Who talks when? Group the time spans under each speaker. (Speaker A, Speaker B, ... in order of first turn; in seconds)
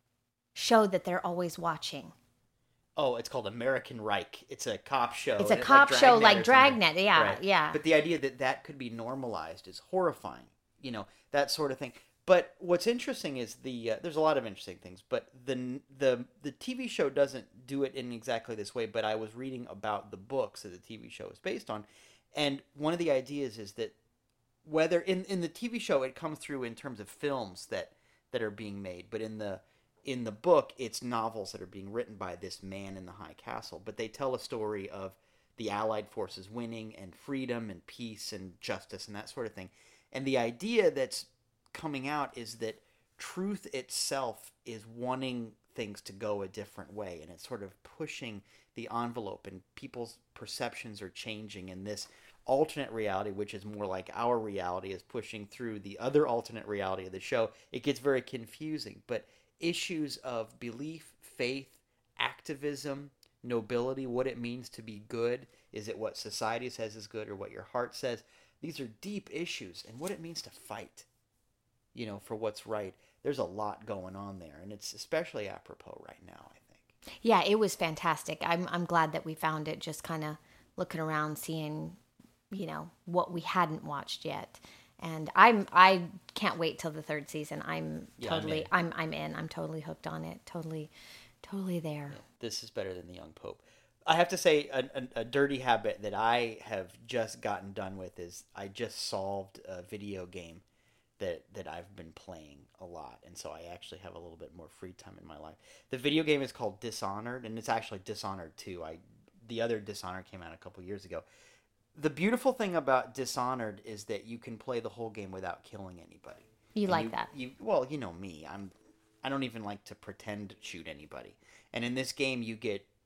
Speaker A: 0.5-2.1, 5.4-7.8, 77.2-82.0, 82.5-90.9, 91.4-92.2, 116.8-117.3
Speaker B: 3.0-23.9, 24.6-71.1, 71.9-76.9, 88.2-88.7, 92.1-100.6, 101.2-111.2, 111.9-122.9